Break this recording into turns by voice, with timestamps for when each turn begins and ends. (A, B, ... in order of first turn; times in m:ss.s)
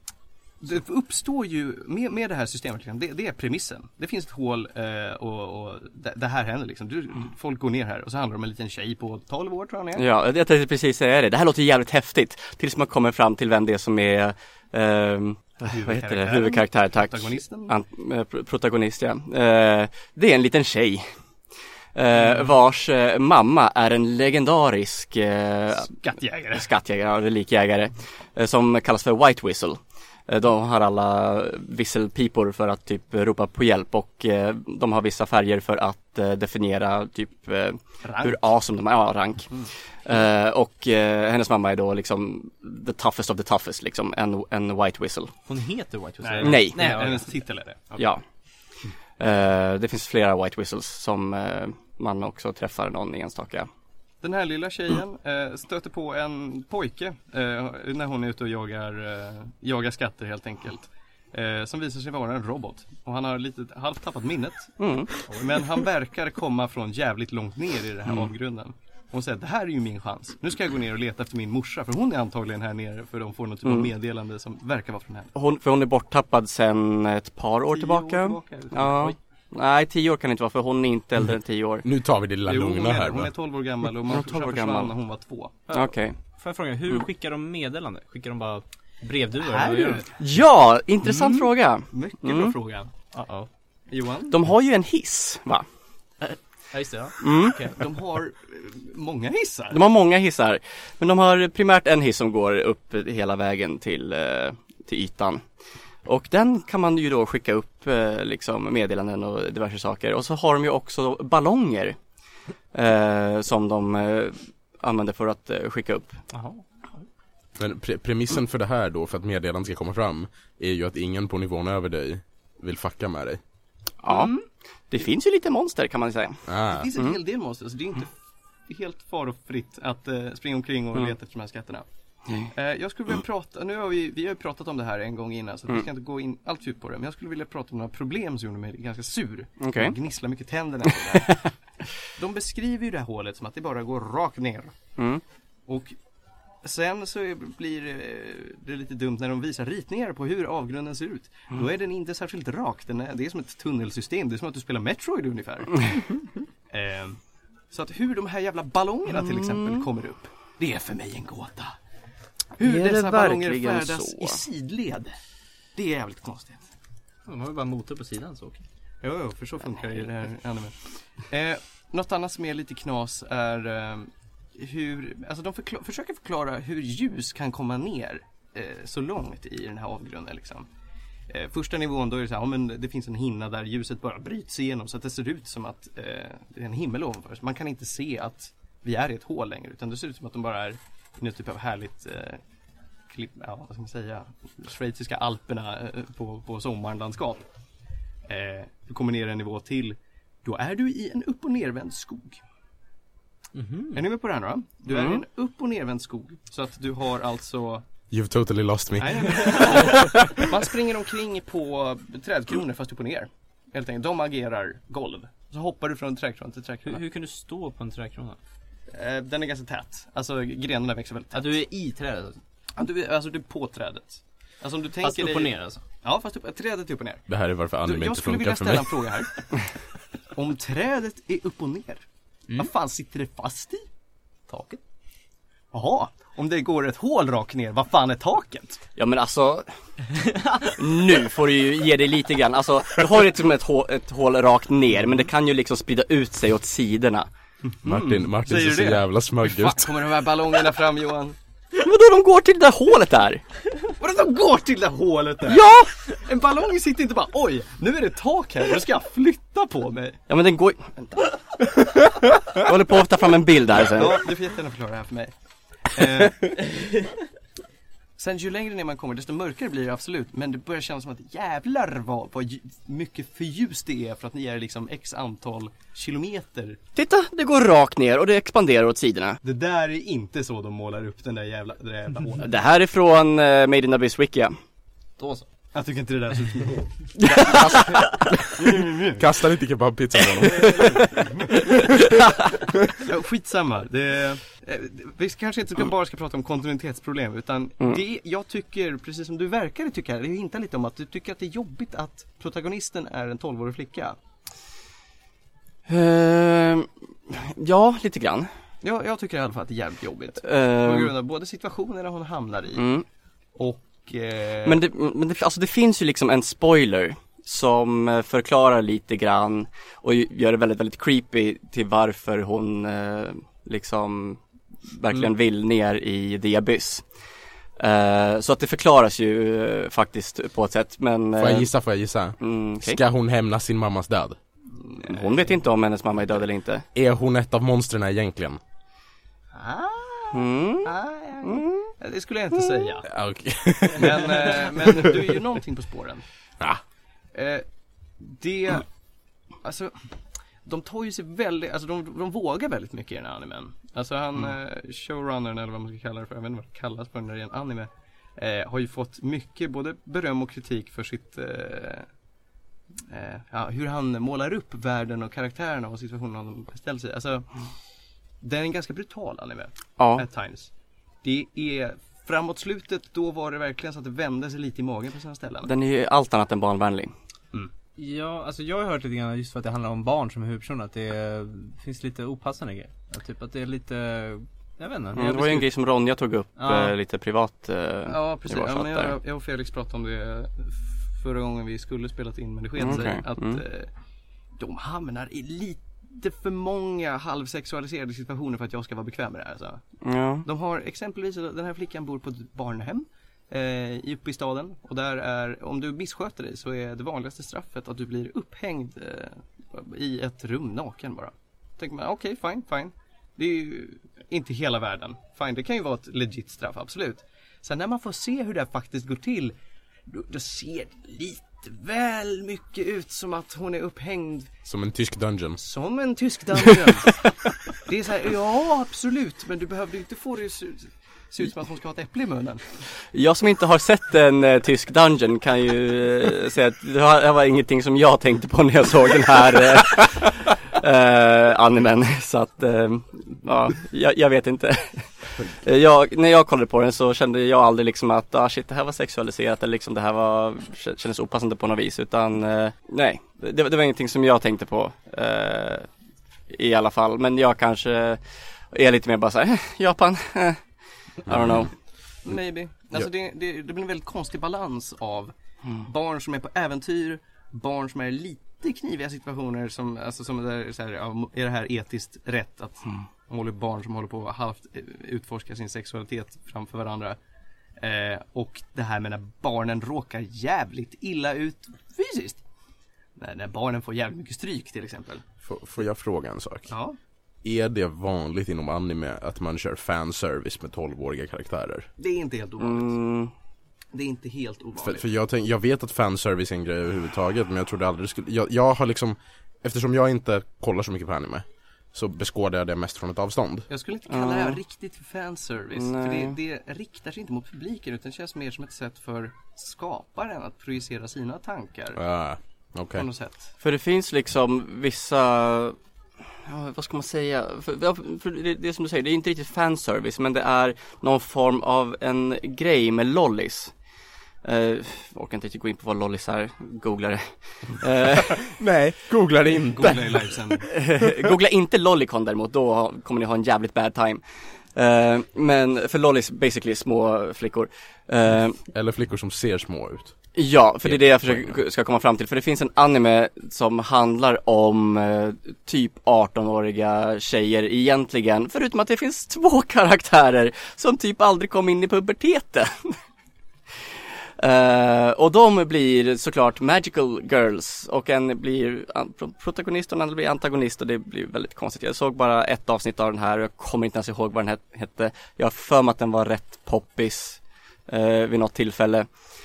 0:00.6-0:10.1 A
0:10.0-0:21.1 B
0:15.6-0:17.8 A
0:22.0-0:25.9 B
0:25.8-0:26.7 A
0:26.5-0:39.5 B
0:38.0-0:38.4 A
0:40.0-0:45.3 B
0:45.5-0:47.3 C
0:46.2-0:48.1 A
0:46.4-0:47.1 B
0:49.2-0:53.7 B
0:54.2-1:15.3 A
1:04.8-1:05.1 B
1:13.6-1:13.9 B
1:15.4-1:21.8 B
1:17.7-1:19.1 A
1:21.8-1:23.3 D
1:22.5-1:25.6 A
1:24.1-1:24.9 B
1:25.7-1:30.1 C
1:25.7-1:26.2 B
1:29.4-1:30.1 A
1:30.2-1:32.6 B
1:31.9-1:32.9 A
1:33.1-1:33.5 C
1:33.9-1:34.4 A
1:34.3-1:35.6 B
1:36.2-1:37.8 C
1:37.2-1:37.6 B
1:37.7-1:39.8 A
1:39.7-1:45.4 B
1:46.1-1:52.0 B
1:52.7-1:56.2 B
1:56.3-1:57.0 C
1:57.6-2:03.4 D
2:04.0-2:04.3 B
2:04.1-2:04.4 A
2:04.9-2:06.4 B
2:06.5-2:06.9 D
2:06.7-2:08.1 A
2:08.7-2:11.9 A
2:12.5-2:21.4 A
2:19.6-2:20.0 B
2:22.1-2:24.7 A
2:25.0-2:25.2 B
2:25.7-2:25.9 A
2:26.6-2:36.2 A
2:36.7-2:37.2 A
2:37.7-2:41.7 A
2:39.1-2:39.9 B
2:42.6-2:45.2 A
2:42.6-2:44.4 B
2:45.8-2:46.7 A
2:47.3-2:48.6 C
2:49.0-3:00.7 A
3:01.3-3:12.4 A
3:13.1-3:17.4 A
3:18.3-3:22.4 A
3:23.6-3:24.0 C
3:23.9-3:27.8 A
3:24.9-3:25.2 B
3:28.1-3:30.4 D
3:29.0-3:37.0 A
3:36.9-3:38.4 C
3:38.9-3:41.6 A
3:41.3-3:42.4 C
3:42.8-3:47.2 A
3:45.0-3:45.8 C
3:47.3-3:49.0 D
3:47.8-3:49.6 A
3:50.3-3:52.0 A
3:52.6-3:53.8 A
3:54.5-3:54.8 C
3:55.7-3:58.8 A
3:59.0-3:59.7 B
4:00.4-4:07.3 B
4:07.6-4:11.4 A
4:07.8-4:10.0 D
4:11.7-4:13.4 B
4:13.8-4:20.2 A
4:15.5-4:16.0 B
4:20.3-4:21.3 B
4:22.4-4:24.2 B
4:23.9-4:25.3 A
4:25.9-4:27.1 A
4:28.2-4:36.8 A
4:37.0-4:39.4 B
4:39.4-4:42.5 A
4:42.4-4:44.5 B
4:45.2-4:45.5 C
4:45.7-4:49.3 A
4:47.2-4:48.1 B
4:49.2-4:51.0 D
4:50.4-4:52.0 A
4:52.9-5:04.2 A
5:05.9-5:08.5 B
5:08.8-5:12.9 A
5:10.4-5:11.1 B
5:12.8-5:13.0 B
5:13.6-5:14.8 A
5:14.6-5:24.4 B
5:24.9-5:27.0 B
5:27.8-5:31.7 B
5:31.4-5:34.4 D
5:32.4-5:33.0 B
5:34.8-5:35.6 A
5:35.0-5:36.9 B
5:37.0-5:38.6 D
5:39.5-5:43.1 A
5:40.3-5:41.9 B
5:43.0-5:45.1 D
5:44.0-5:46.2 A
5:47.3-5:47.7 A
5:48.2-5:48.9 A
5:49.6-6:02.1 A
6:03.1-6:07.5 A
6:08.4-6:10.7 A
6:10.0-6:10.3 B
6:11.2-6:15.7 A
6:15.6-6:17.1 B
6:18.0-6:25.7 C
6:25.2-6:29.2 B
6:26.6-6:26.9 C
6:28.1-6:33.9 A
6:32.8-6:33.6 B
6:34.6-6:39.8 A
6:40.0-6:40.4 B
6:40.4-6:59.6 A
7:00.1-7:04.5 A
7:04.7-7:05.6 D
7:05.6-7:07.3 A
7:07.8-7:12.6 A
7:13.1-7:35.9 B
7:36.5-7:40.6 B
7:41.2-7:41.7 B
7:42.2-7:57.2 A
7:57.8-8:02.4 A
8:03.2-8:05.2 A
8:05.4-8:06.7 D
8:06.7-8:07.0 A
8:07.4-8:11.9 D
8:12.0-8:13.0 A
8:12.6-8:13.3 B
8:13.9-8:15.0 A
8:14.8-8:23.7 D
8:23.7-8:32.0 A
8:24.1-8:24.6 B
8:25.8-8:26.4 B
8:32.0-8:33.1 D
8:33.0-8:33.5 A
8:33.6-8:35.8 B
8:36.4-8:43.7 B
8:44.4-8:48.5 B
8:48.4-8:50.3 D
8:49.8-8:50.7 A
8:50.6-8:54.2 B
8:54.8-8:58.6 B
8:58.7-9:00.1 D
9:00.4-9:12.7 B
9:00.8-9:01.6 D
9:14.4-9:29.1 B